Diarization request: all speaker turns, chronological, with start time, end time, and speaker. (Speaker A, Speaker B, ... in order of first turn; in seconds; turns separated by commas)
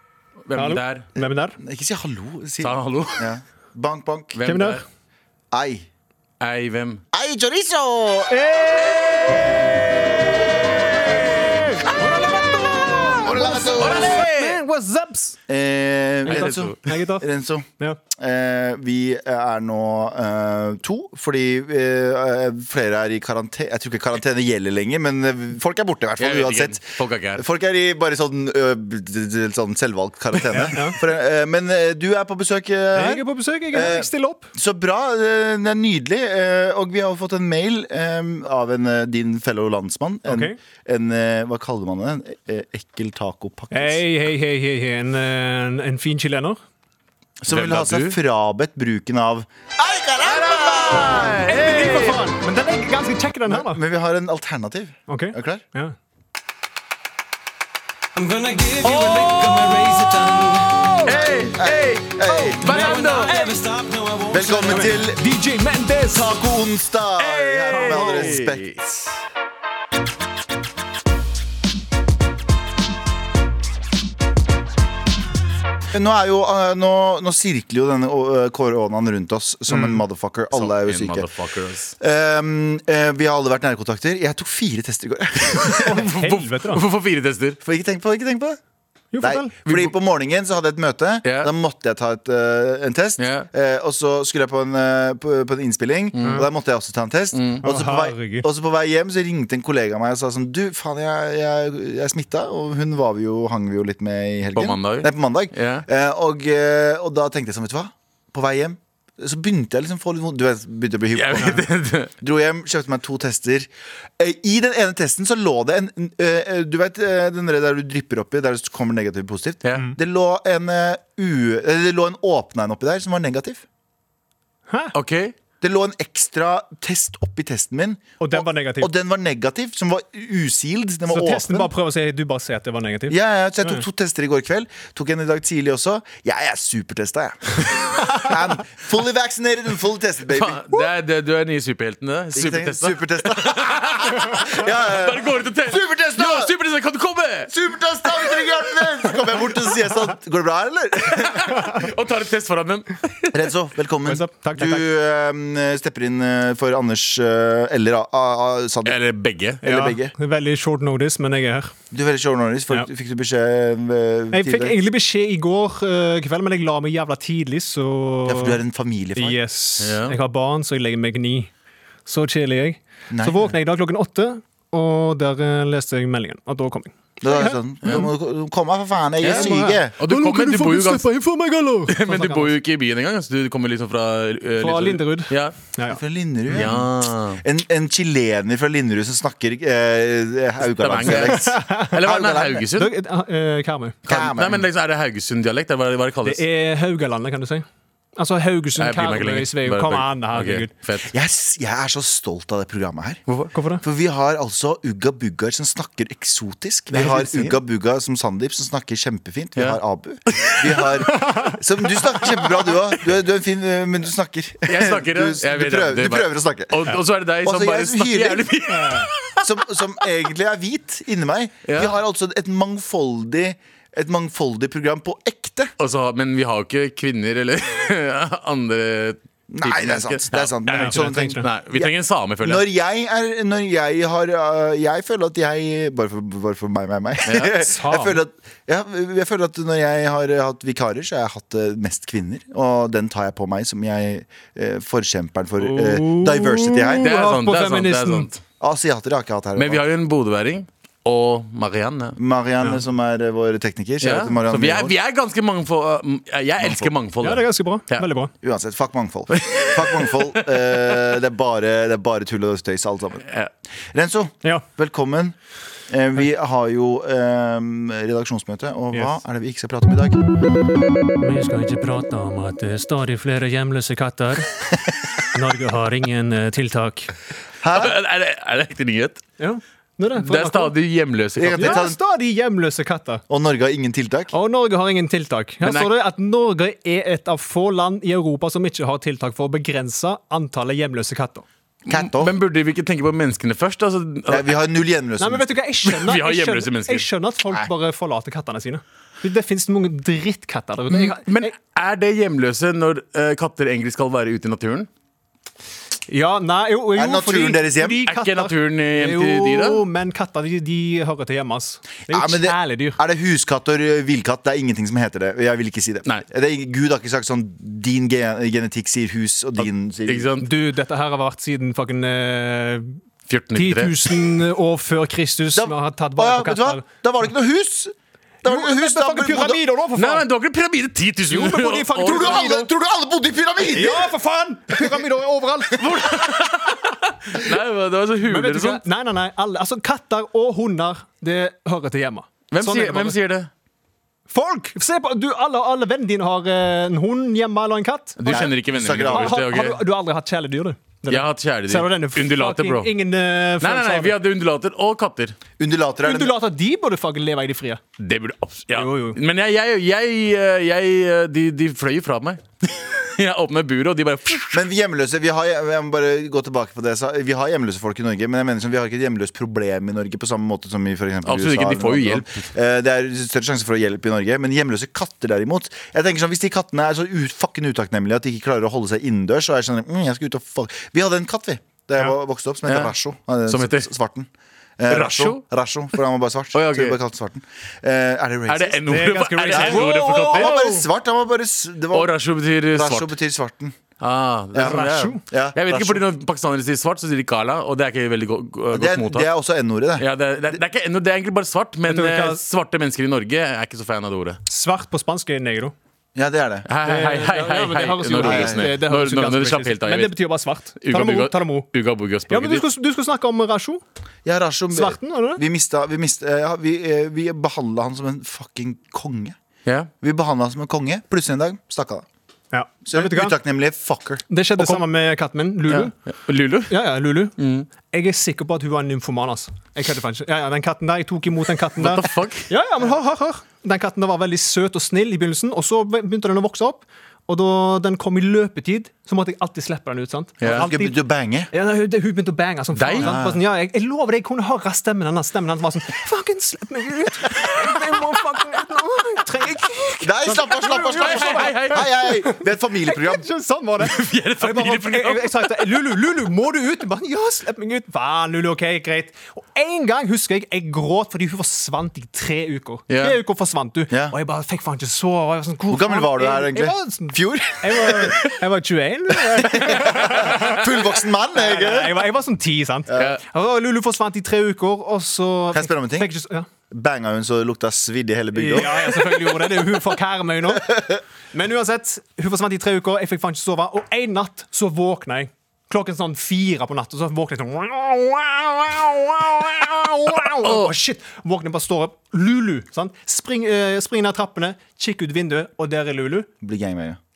Speaker A: 0.5-1.1, Speaker B: 0.5-1.6, Speaker C: 1.6-4.4, Speaker A: 2.6-3.3, Speaker A: 4.3-4.8, Speaker B: 4.4-4.8, Speaker C: 5.5-5.8, Speaker A: 6.4-7.0, Speaker C: 7.1-8.3, Speaker B: 8.3-15.4, Speaker C: 13.1-14.2, Speaker A: 13.7-14.6, Speaker C: 15.5-44.0, Speaker B: 16.2-17.3, Speaker A: 16.3-16.7, Speaker A: 26.2-27.4, Speaker B: 30.5-31.0, Speaker B: 32.9-34.5, Speaker B: 40.3-40.6, Speaker B: 43.7-46.6, Speaker C: 47.4-51.5, Speaker A: 47.5-48.2, Speaker A: 50.2-52.3, Speaker B: 51.5-53.8, Speaker C: 53.5-55.6, Speaker B: 55.1-55.9, Speaker D: 58.1-60.7, Speaker A: 58.8-60.5, Speaker B: 58.8-59.7, Speaker B: 60.7-61.3, Speaker A: 61.0-63.4, Speaker C: 61.1-62.6, Speaker B: 62.3-63.7, Speaker D: 63.3-64.4, Speaker C: 64.3-65.2, Speaker B: 64.4-66.4, Speaker C: 66.1-68.6, Speaker A: 67.2-69.1, Speaker B: 67.7-68.3, Speaker C: 75.9-81.3, Speaker B: 79.7-80.0, Speaker A: 80.5-81.9, Speaker C: 82.0-86.0, Speaker A: 85.6-87.6, Speaker B: 85.8-86.8, Speaker C: 87.6-88.6, Speaker B: 89.1-89.5, Speaker C: 89.2-111.7, Speaker A: 89.6-89.9, Speaker A: 91.2-91.5, Speaker A: 93.2-93.5, Speaker A: 96.1-96.5, Speaker B: 96.2-96.5, Speaker A: 97.3-97.6, Speaker B: 97.6-98.5, Speaker A: 104.5-105.8, Speaker A: 111.1-112.1, Speaker C: 112.2-123.6, Speaker B: 124.7-124.9, Speaker A: 124.9-125.3, Speaker C: 125.6-131.7, Speaker B: 128.2-128.9, Speaker B: 131.1-133.8, Speaker C: 133.1-140.9, Speaker A: 140.3-147.5, Speaker C: 142.3-146.5, Speaker C: 147.5-151.7, Speaker A: 151.0-153.4, Speaker C: 153.3-159.0, Speaker B: 154.0-154.8, Speaker A: 158.8-159.6, Speaker C: 159.6-160.1, Speaker B: 159.6-161.7, Speaker C: 161.9-164.8, Speaker B: 164.3-168.6, Speaker C: 168.2-169.4, Speaker B: 169.2-171.5, Speaker A: 169.8-170.2, Speaker B: 172.1-178.1, Speaker C: 173.1-173.5, Speaker C: 177.2-179.9, Speaker A: 177.8-178.1, Speaker B: 179.2-182.5, Speaker A: 179.2-181.1, Speaker A: 181.9-185.5, Speaker B: 184.6-186.0, Speaker C: 185.8-186.9, Speaker A: 186.5-187.4, Speaker C: 187.4-192.7, Speaker A: 190.8-192.9, Speaker B: 191.3-191.9, Speaker B: 192.7-194.0, Speaker C: 194.1-194.7, Speaker A: 194.1-196.4, Speaker B: 196.2-200.7, Speaker A: 198.8-201.1, Speaker C: 201.1-203.2, Speaker B: 203.5-203.8, Speaker C: 203.8-218.6, Speaker B: 206.9-207.6, Speaker A: 209.6-211.3, Speaker B: 211.1-211.5, Speaker A: 214.7-219.6, Speaker B: 218.7-219.1, Speaker C: 219.4-225.7, Speaker A: 221.7-221.9, Speaker A: 225.8-232.6, Speaker C: 229.5-247.2, Speaker B: 230.7-231.5, Speaker A: 237.2-237.6, Speaker B: 237.6-238.2, Speaker B: 245.6-248.3, Speaker A: 247.0-248.4, Speaker C: 248.6-249.8, Speaker A: 249.6-252.2, Speaker C: 252.2-254.9, Speaker A: 254.0-258.1, Speaker C: 256.6-256.9, Speaker B: 257.2-258.3, Speaker C: 258.4-263.2, Speaker A: 259.3-261.1, Speaker A: 263.2-263.5, Speaker C: 263.9-265.3, Speaker C: 265.9-270.2, Speaker B: 268.9-269.2, Speaker B: 271.2-274.5, Speaker B: 275.3-277.1, Speaker C: 277.6-277.9, Speaker A: 277.7-279.2, Speaker B: 279.4-280.7, Speaker A: 280.1-281.8, Speaker C: 281.4-282.0, Speaker B: 281.5-283.2, Speaker C: 283.3-284.3, Speaker B: 284.3-291.4, Speaker A: 285.6-285.9, Speaker C: 291.9-292.3, Speaker A: 291.9-294.5, Speaker C: 294.3-295.5, Speaker B: 295.2-301.5, Speaker A: 295.8-297.1, Speaker A: 300.9-304.9, Speaker B: 306.1-313.0, Speaker C: 306.9-308.0, Speaker A: 308.1-309.8, Speaker C: 312.1-320.3, Speaker A: 319.6-320.5, Speaker B: 320.4-323.0, Speaker A: 323.3-324.1, Speaker B: 323.5-326.8, Speaker C: 325.5-329.6, Speaker B: 328.4-330.2, Speaker A: 329.9-332.5, Speaker B: 331.3-332.7, Speaker C: 332.1-334.1, Speaker B: 333.7-336.1, Speaker A: 335.8-338.8, Speaker B: 338.2-343.2, Speaker A: 342.5-343.5, Speaker B: 344.3-354.1, Speaker A: 348.2-349.8, Speaker C: 348.3-349.4, Speaker A: 351.1-352.9, Speaker A: 353.6-355.4, Speaker C: 355.6-356.3, Speaker B: 356.0-357.8, Speaker A: 358.0-364.6, Speaker B: 358.7-359.2, Speaker C: 364.5-392.1, Speaker A: 371.2-372.4, Speaker A: 382.7-382.9, Speaker A: 383.5-383.9, Speaker A: 384.9-385.4, Speaker A: 386.5-387.0, Speaker A: 388.5-390.8, Speaker B: 388.9-390.8, Speaker A: 391.9-393.1, Speaker C: 392.7-393.8, Speaker A: 394.0-399.3, Speaker C: 394.5-396.0, Speaker B: 394.6-395.2, Speaker C: 398.7-400.5, Speaker A: 400.0-404.4, Speaker B: 401.9-402.4, Speaker B: 404.5-405.7, Speaker C: 406.1-406.7, Speaker A: 406.7-410.2, Speaker B: 406.8-411.7, Speaker C: 408.2-408.7, Speaker A: 410.8-412.6, Speaker B: 412.3-413.8, Speaker C: 414.2-419.4, Speaker B: 414.7-415.4, Speaker C: 420.0-422.1, Speaker B: 422.5-423.4, Speaker C: 422.9-424.2, Speaker B: 424.3-425.9, Speaker A: 425.6-426.8, Speaker B: 426.7-440.9, Speaker A: 427.4-427.7, Speaker A: 431.8-432.5, Speaker A: 440.4-440.6, Speaker C: 440.4-441.5, Speaker B: 441.5-470.6, Speaker A: 442.7-443.1, Speaker C: 443.0-443.4, Speaker A: 447.7-448.0, Speaker C: 450.0-453.3, Speaker A: 450.9-452.0, Speaker A: 453.8-455.9, Speaker A: 462.9-463.2, Speaker C: 463.9-464.1, Speaker C: 465.7-468.3, Speaker C: 469.3-472.1, Speaker B: 471.3-476.5, Speaker C: 472.9-473.1, Speaker C: 475.5-476.1, Speaker C: 476.7-479.4, Speaker B: 478.3-496.3, Speaker A: 490.4-490.7, Speaker C: 496.4-497.0